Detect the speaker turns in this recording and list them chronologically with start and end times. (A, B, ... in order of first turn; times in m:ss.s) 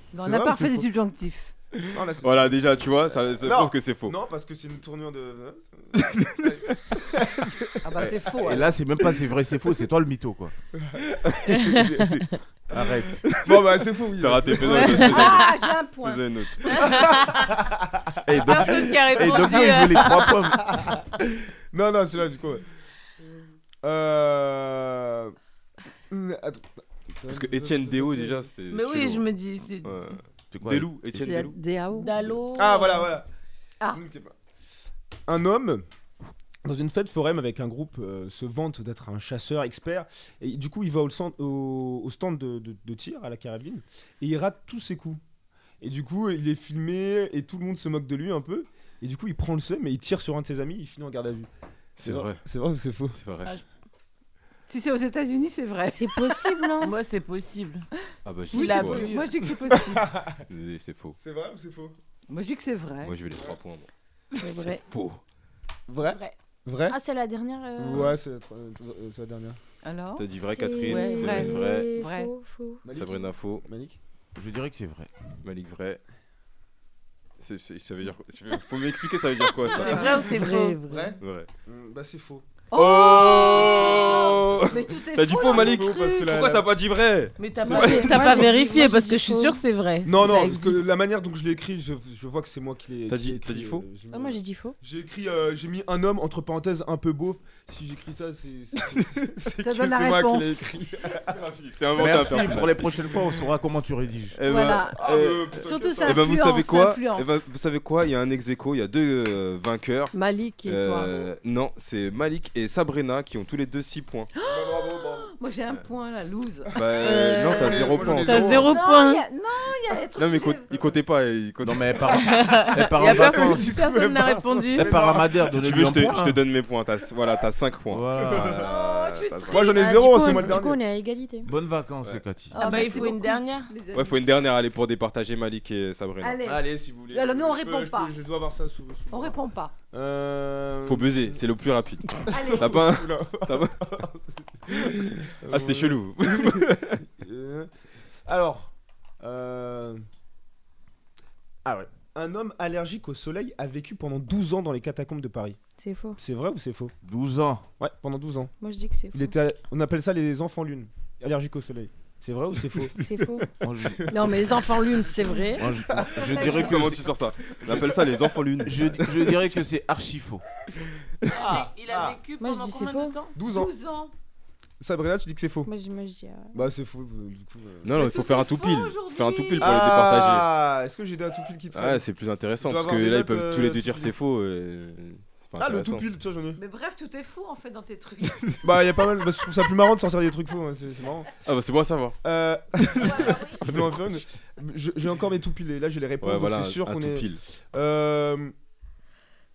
0:00.1-0:01.5 A
0:00.2-0:00.9 B
0:01.8-0:04.2 C
0:01.9-0:09.2 B
0:06.0-0:06.8 C
0:07.8-0:08.7 A
0:08.3-0:10.5 D
0:10.8-0:11.9 B
0:11.4-0:12.0 E
0:11.8-0:13.3 D
0:12.7-0:15.2 B
0:13.3-0:17.0 C
0:14.7-0:16.7 A
0:14.8-0:15.6 E
0:16.8-0:19.4 B
0:16.8-0:17.4 E
0:18.2-0:20.9 D
0:18.3-0:20.6 E
0:20.6-0:21.0 B
0:21.7-0:22.6 B
0:23.8-0:25.4 B
0:26.1-0:28.5 B
0:27.3-0:29.3 C
0:28.7-0:30.0 E
0:29.8-0:31.6 C
0:30.5-0:30.9 D
0:31.1-0:32.2 F
0:31.9-0:33.1 E
0:32.5-0:33.3 B
0:33.9-0:34.3 B
0:35.3-0:35.8 B
0:36.6-0:45.2 B
0:45.8-0:51.5 B
0:52.0-0:52.4 C
0:52.0-0:53.2 B
0:53.1-0:53.5 C
0:54.7-0:56.6 A
0:55.9-0:57.0 G
0:56.8-0:57.8 E
0:58.2-0:59.1 C
0:58.5-0:59.4 E
0:58.5-1:00.1 A
0:59.8-1:00.4 B
1:00.5-1:01.2 C
1:01.2-1:01.9 B
1:02.3-1:03.2 A
1:03.0-1:03.9 C
1:04.4-1:05.2 C
1:04.4-1:04.8 G
1:04.5-1:04.8 E
1:05.9-1:07.0 B
1:06.1-1:06.3 E
1:06.9-1:08.1 G
1:07.8-1:09.6 B
1:09.8-1:12.3 A
1:10.2-1:11.9 C
1:10.4-1:12.8 G
1:12.8-1:14.0 B
1:12.9-1:13.6 C
1:14.3-1:15.1 D
1:15.4-1:16.0 C
1:17.4-1:20.3 C
1:19.7-1:21.0 E
1:19.7-1:20.1 A
1:20.3-1:20.8 F
1:20.8-1:22.4 B
1:21.2-1:21.5 C
1:22.7-1:26.4 A
1:22.7-1:28.5 C
1:23.4-1:26.7 B
1:27.4-1:30.7 E
1:27.6-1:29.6 G
1:27.6-1:28.3 B
1:27.9-1:28.8 A
1:30.0-1:41.5 B
1:30.2-1:30.5 A
1:33.1-1:33.8 C
1:34.1-1:34.8 G
1:39.6-1:40.7 A
1:41.3-1:43.3 C
1:41.9-1:44.4 D
1:44.3-1:50.1 C
1:44.5-1:45.0 A
1:45.0-1:46.4 B
1:45.6-1:47.3 A
1:50.1-1:51.1 F
1:50.6-1:54.3 C
1:54.4-1:56.8 A
1:54.4-1:55.3 B
1:56.7-1:58.8 B
1:56.7-1:58.6 C
1:57.0-1:59.2 E
1:58.5-2:00.9 A
2:00.2-2:02.1 C
2:01.6-2:03.7 D
2:02.2-2:05.0 E
2:03.0-2:05.6 B
2:04.8-2:06.4 D
2:05.5-2:10.0 C
2:07.9-2:08.6 D
2:08.6-2:10.3 A
2:09.5-2:10.8 B
2:09.6-2:11.5 G
2:11.4-2:12.9 D
2:12.5-2:14.2 A
2:12.5-2:13.7 E
2:13.9-2:16.4 C
2:16.2-2:18.2 A
2:16.4-2:19.4 B
2:19.1-2:19.7 A
2:19.9-2:21.4 B
2:20.8-2:23.8 C
2:22.3-2:26.7 B
2:22.3-2:22.8 A
2:24.7-2:27.0 C
2:27.2-2:27.7 B
2:28.2-2:30.0 B
2:31.6-2:35.6 B
2:35.8-2:36.2 G
2:36.2-2:36.9 B
2:37.0-2:37.7 D
2:37.8-2:38.5 B
2:38.6-2:39.3 G
2:39.1-2:43.0 B
2:42.9-2:43.4 G
2:43.6-2:44.7 D
2:44.1-2:45.6 F
2:45.6-2:47.1 D
2:45.9-2:46.3 B
2:46.1-2:47.0 A
2:46.3-2:49.4 C
2:48.6-2:50.4 D
2:51.3-2:53.4 E
2:51.3-2:52.2 B
2:52.4-2:53.3 G
2:53.4-2:53.7 B
2:53.4-2:54.1 A
2:54.8-2:55.7 B
2:55.6-2:56.7 G
2:56.5-2:58.1 B
2:57.8-3:00.5 C
2:58.0-3:00.0 A
2:59.6-3:02.0 B
3:01.7-3:06.0 C
3:02.6-3:04.1 B
3:05.6-3:06.6 B
3:06.6-3:08.6 A
3:08.2-3:08.6 C
3:08.6-3:11.3 B
3:11.4-3:12.2 C
3:12.2-3:18.5 B
3:12.8-3:14.2 C
3:13.0-3:13.6 A
3:16.2-3:17.4 C